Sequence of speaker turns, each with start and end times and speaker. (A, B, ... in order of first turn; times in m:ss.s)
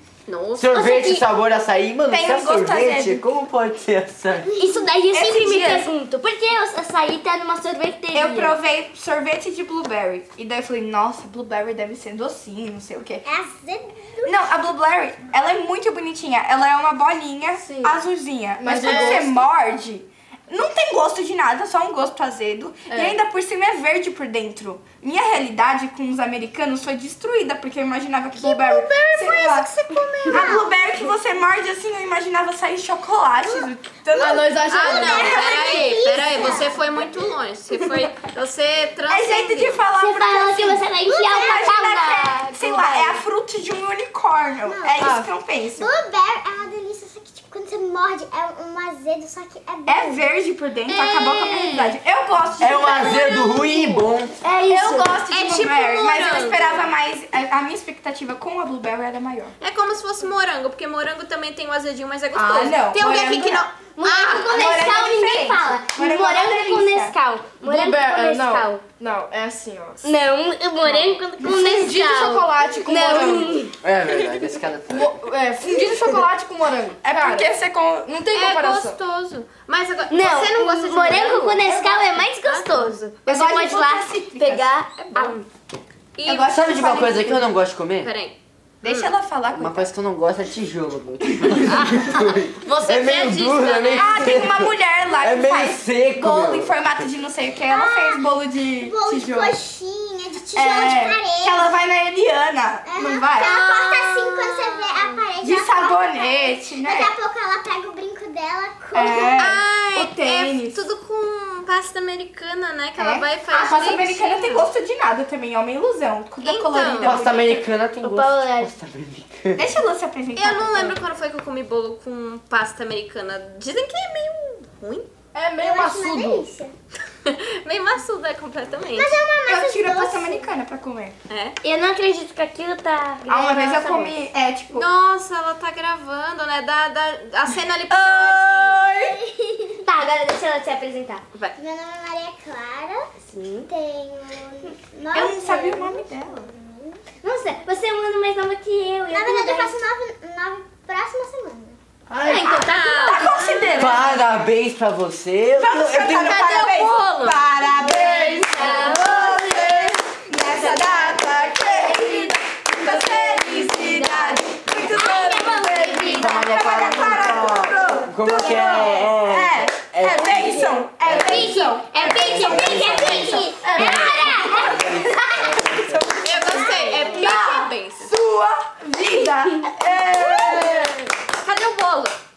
0:00.3-0:00.9 A
0:00.6-0:04.5 B
0:00.7-0:01.2 C
0:02.1-0:03.2 D
0:04.4-0:04.9 E
0:04.6-0:08.6 C
0:05.1-0:05.9 D
0:08.1-0:13.2 D
0:13.2-0:14.5 E
0:14.2-0:29.7 D
0:17.6-0:18.0 F
0:18.6-0:19.4 F
0:22.9-0:23.2 F
0:28.4-0:30.6 C
0:29.0-0:29.3 E
0:29.9-0:30.7 E
0:30.3-0:35.7 D
0:34.1-0:35.4 F
0:34.7-0:39.8 A
0:34.9-0:36.8 E
0:39.1-0:45.9 D
0:40.0-0:43.2 C
0:41.1-0:41.8 E
0:44.6-0:45.2 E
0:45.8-0:50.3 E
0:49.9-0:53.4 D
0:52.6-0:54.4 B
0:53.0-0:54.1 E
0:54.4-0:55.2 C
0:54.7-0:59.5 D
0:55.3-0:56.8 A
0:59.6-1:04.2 A
1:02.3-1:07.2 D
1:04.0-1:08.8 C
1:07.7-1:10.2 F
1:10.0-1:13.8 C
1:11.5-1:13.6 F
1:12.6-1:13.2 D
1:13.8-1:15.2 B
1:14.9-1:17.5 F
1:17.0-1:19.0 D
1:18.3-1:22.7 A
1:20.1-1:25.5 C
1:23.3-1:25.3 D
1:26.2-1:27.2 A
1:26.3-1:27.4 D
1:26.5-1:28.1 B
1:28.0-1:29.1 A
1:28.8-1:29.9 D
1:29.5-1:36.8 B
1:31.7-1:34.4 A
1:33.9-1:39.6 D
1:37.7-1:38.2 E
1:38.8-1:41.8 E
1:40.5-1:43.6 D
1:42.9-1:49.5 E
1:43.4-1:45.2 A
1:45.4-1:47.1 D
1:48.9-1:50.8 D
1:49.4-1:54.7 A
1:53.0-1:57.6 D
1:56.4-1:57.2 A
1:57.0-1:59.7 B
1:58.0-1:58.8 C
1:59.6-2:01.0 D
2:00.4-2:05.1 A
2:05.3-2:06.5 F
2:05.6-2:06.7 E
2:07.2-2:09.2 A
2:08.9-2:10.5 E
2:09.5-2:11.2 D
2:11.3-2:11.6 A
2:11.6-2:14.1 C
2:13.3-2:14.9 D
2:14.7-2:18.9 A
2:17.9-2:19.2 D
2:19.0-2:19.8 E
2:19.8-2:21.2 C
2:21.6-2:27.0 E
2:23.3-2:23.7 C
2:25.1-2:26.5 D
2:27.2-2:29.7 C
2:29.1-2:31.8 E
2:32.1-2:32.5 B
2:32.2-2:33.7 C
2:32.4-2:33.9 A
2:32.9-2:34.2 D
2:33.8-2:36.4 B
2:35.6-3:01.0 D
2:36.1-2:39.1 A
2:37.9-2:47.0 C
2:46.2-2:56.2 B
2:48.2-2:49.1 C
2:51.0-2:55.4 C
2:51.9-2:54.6 E
2:56.2-2:58.1 A
3:01.4-3:02.2 A